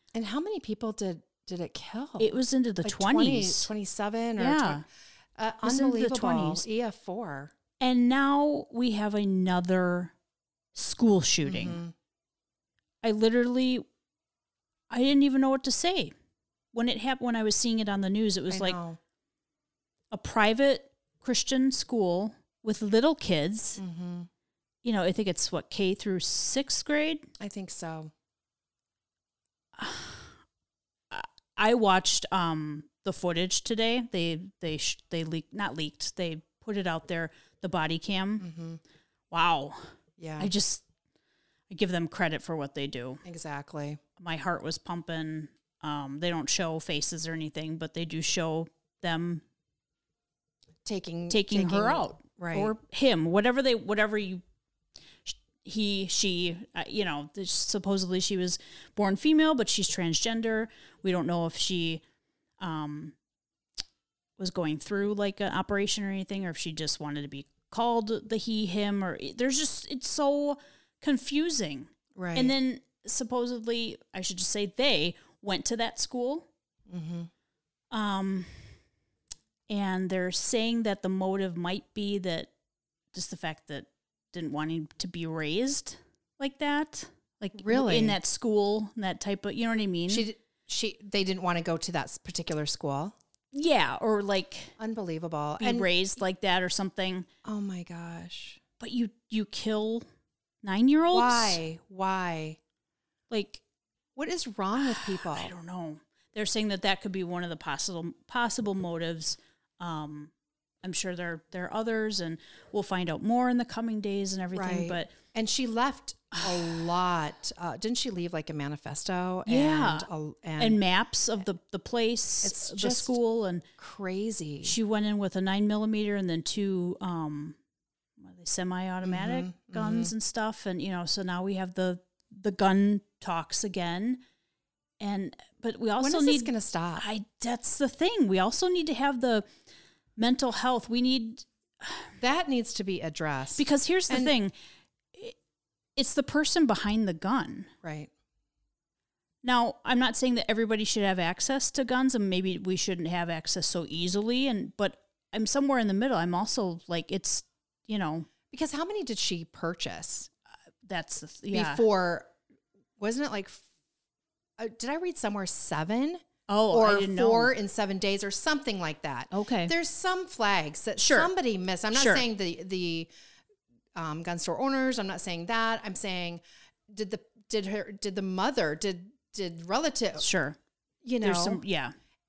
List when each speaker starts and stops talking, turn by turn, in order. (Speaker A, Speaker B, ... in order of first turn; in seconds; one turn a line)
Speaker A: 0.1-2.3
Speaker B: 2.2-3.7
Speaker A: 2.8-4.8
Speaker B: 4.4-4.8
Speaker A: 5.4-7.5
Speaker B: 5.6-6.7
Speaker B: 7.8-10.1
Speaker B: 10.8-11.8
Speaker A: 11.4-11.9
Speaker B: 13.0-13.9
Speaker B: 14.9-16.1
Speaker B: 16.7-18.8
Speaker A: 18.5-19.0
Speaker B: 20.1-23.8
Speaker A: 23.8-24.3
Speaker B: 24.8-27.3
Speaker A: 27.4-28.1
Speaker B: 29.8-30.3
Speaker B: 31.1-38.4
Speaker A: 38.4-38.8
Speaker B: 39.3-39.8
Speaker A: 40.2-40.5
Speaker B: 40.4-40.9
Speaker B: 41.7-43.2
Speaker A: 43.2-44.0
Speaker B: 44.2-49.4
Speaker A: 50.9-52.7
Speaker B: 51.3-54.4
Speaker B: 55.2-62.0
Speaker B: 62.6-63.1
Speaker B: 64.4-76.5
Speaker A: 72.1-72.5
Speaker A: 76.9-77.3
Speaker B: 77.9-78.8
Speaker B: 79.7-82.5
Speaker B: 83.1-90.3
Speaker A: 87.5-88.2
Speaker A: 90.1-93.2
Speaker B: 93.5-94.8
Speaker A: 94.8-95.9
Speaker B: 95.6-97.3
Speaker A: 97.5-98.6
Speaker B: 98.8-100.0
Speaker B: 100.6-101.6
Speaker A: 101.1-102.6
Speaker B: 103.3-103.6
Speaker A: 104.2-105.5
Speaker B: 104.8-110.3
Speaker B: 110.8-115.1
Speaker A: 114.5-120.8
Speaker B: 116.3-116.9
Speaker B: 119.5-120.1
Speaker B: 120.6-123.6
Speaker A: 122.4-123.2
Speaker A: 123.8-124.8
Speaker B: 124.6-127.6
Speaker B: 128.2-134.2
Speaker A: 129.0-130.1
Speaker B: 135.0-139.5
Speaker A: 136.0-137.1
Speaker B: 140.2-142.1
Speaker A: 142.2-144.3
Speaker B: 143.6-144.5
Speaker B: 146.0-147.7
Speaker A: 147.8-148.1
Speaker B: 149.4-158.3
Speaker A: 158.5-160.3
Speaker B: 160.8-161.8
Speaker A: 161.5-162.3
Speaker A: 163.0-163.6
Speaker A: 164.6-173.1
Speaker B: 166.5-167.5
Speaker B: 169.3-169.7
Speaker B: 171.0-171.3
Speaker B: 171.9-172.2
Speaker A: 174.0-180.3
Speaker B: 180.2-180.6
Speaker A: 181.0-181.6
Speaker B: 181.2-181.9